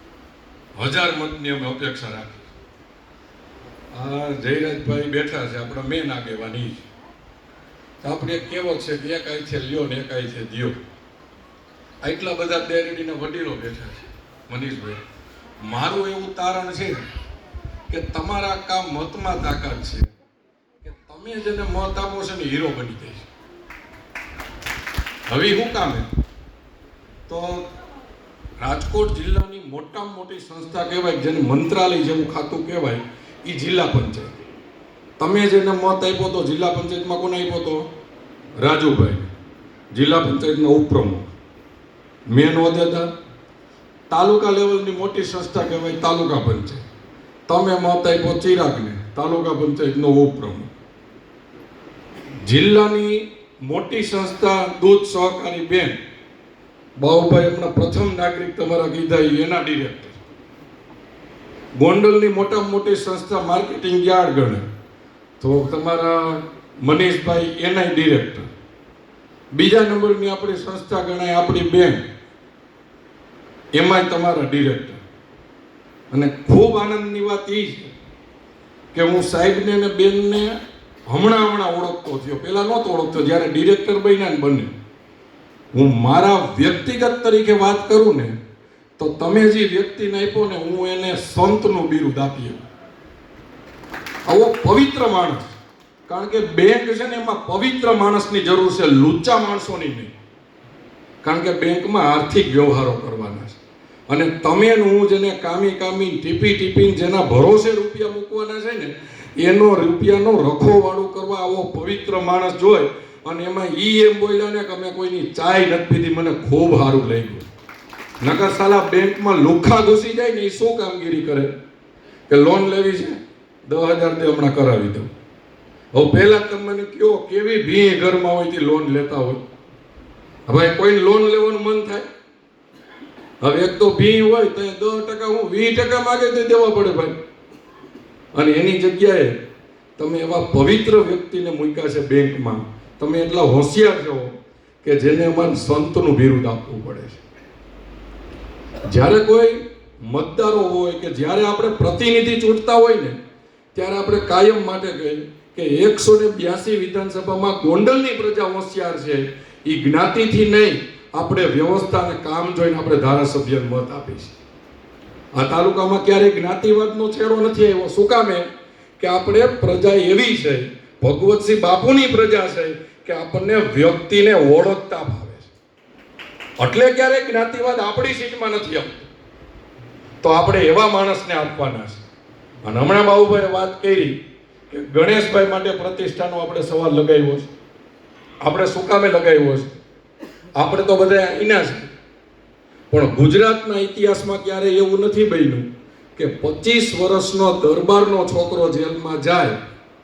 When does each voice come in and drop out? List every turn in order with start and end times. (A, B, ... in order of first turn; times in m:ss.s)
0:00.8-0:02.4 A
0:03.9-0:06.7 A
0:08.0-0:10.8 A
0:12.0-0:15.0 A
0:15.6-0:17.0 A
0:17.9-0:20.1 A
0:20.8-0:23.3 A
0:25.3-0:26.1 A
0:27.3-0:27.7 A
0:28.6-0:34.4 A
0:35.2-0:37.8 A
0:38.6-0:39.3 A
0:39.9-0:41.3 A
0:42.3-0:43.1 A
0:44.1-0:46.8 A
0:47.5-0:50.7 A
0:52.4-0:55.9 A
0:57.0-1:00.2 A
1:01.8-1:04.6 A
1:05.4-1:08.4 A
1:09.5-1:12.0 A
1:13.7-1:15.0 A
1:16.1-1:17.9 A
1:18.9-1:20.6 A
1:21.1-1:24.7 A
1:25.7-1:28.4 A
1:29.0-1:32.6 A
1:34.3-1:35.5 A
1:36.1-1:40.1 A
1:41.2-1:57.4 A
1:58.2-2:01.5 A
2:02.3-2:05.1 A
2:05.9-2:09.4 A
2:10.5-2:12.0 A
2:13.4-2:17.1 A
2:18.3-2:19.3 A
2:20.0-2:24.3 A
2:24.8-2:27.2 A
2:28.9-2:33.2 A
2:33.7-2:44.3 A
2:45.3-2:48.5 A
2:49.0-2:55.5 A
2:56.6-2:59.1 A
3:00.2-3:02.0 A
3:02.6-3:04.2 A
3:04.7-3:07.5 A
3:08.4-3:09.8 A
3:10.6-3:11.9 A
3:12.9-3:15.6 A
3:16.2-3:19.6 A